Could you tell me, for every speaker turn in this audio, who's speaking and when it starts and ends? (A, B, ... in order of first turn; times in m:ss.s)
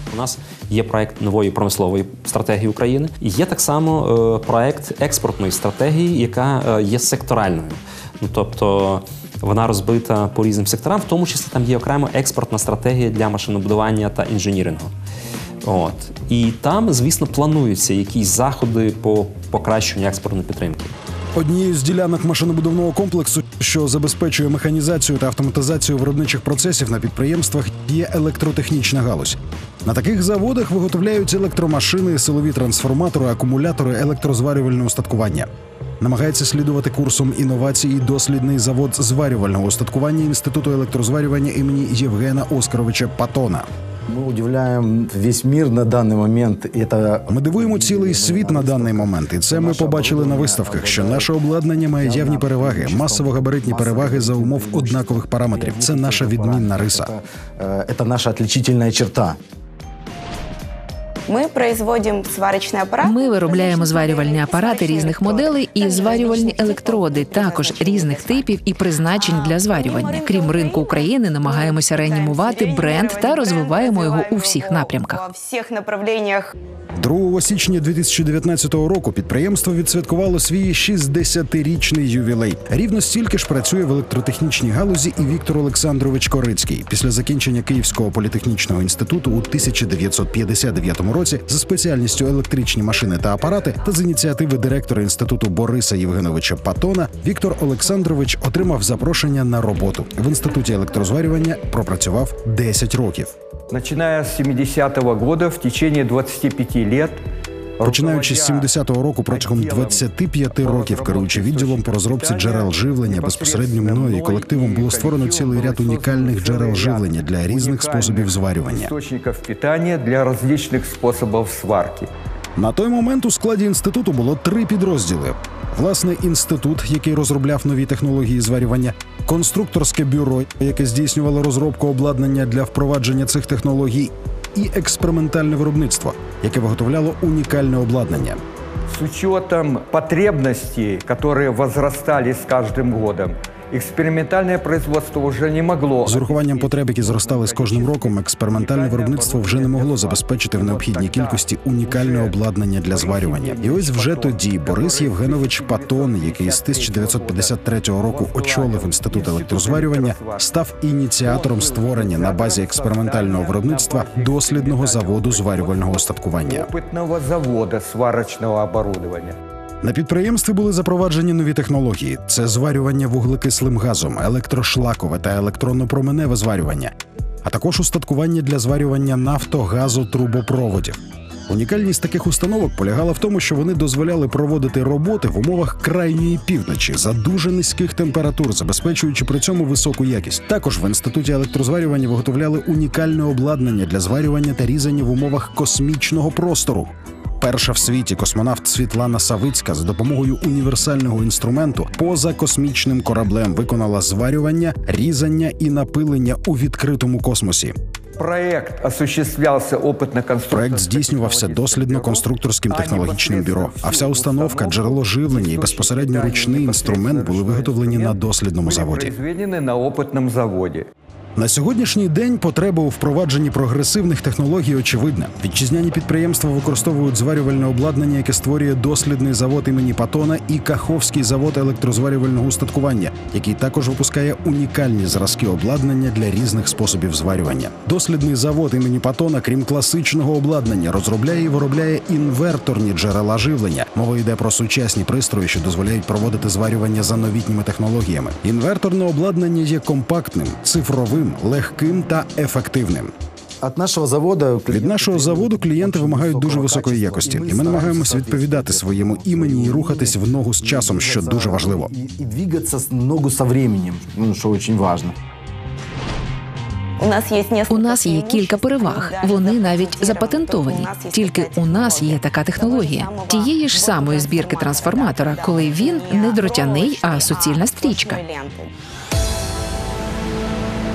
0:00.1-0:14.9 A
0:15.6-0:20.9 A
0:21.3-0:35.5 B
0:36.0-0:43.7 B
0:44.1-0:51.3 C
0:47.3-0:57.1 B
0:52.0-0:59.4 C
1:01.2-1:08.5 D
1:03.0-1:15.2 E
1:09.1-1:16.5 D
1:17.0-1:43.3 B
1:43.7-1:47.2 F
1:47.8-1:48.7 F
1:47.8-1:58.9 B
1:49.2-2:02.1 F
2:02.6-2:18.4 B
2:18.8-2:40.5 F
2:26.0-2:46.7 B
2:41.2-2:49.4 F
2:49.8-3:27.7 B
3:28.2-3:40.9 F
3:30.5-3:39.1 B
3:41.4-4:13.1 B
4:13.6-4:25.1 C
4:14.7-4:21.9 B
4:27.0-4:38.7 D
4:27.7-4:38.2 E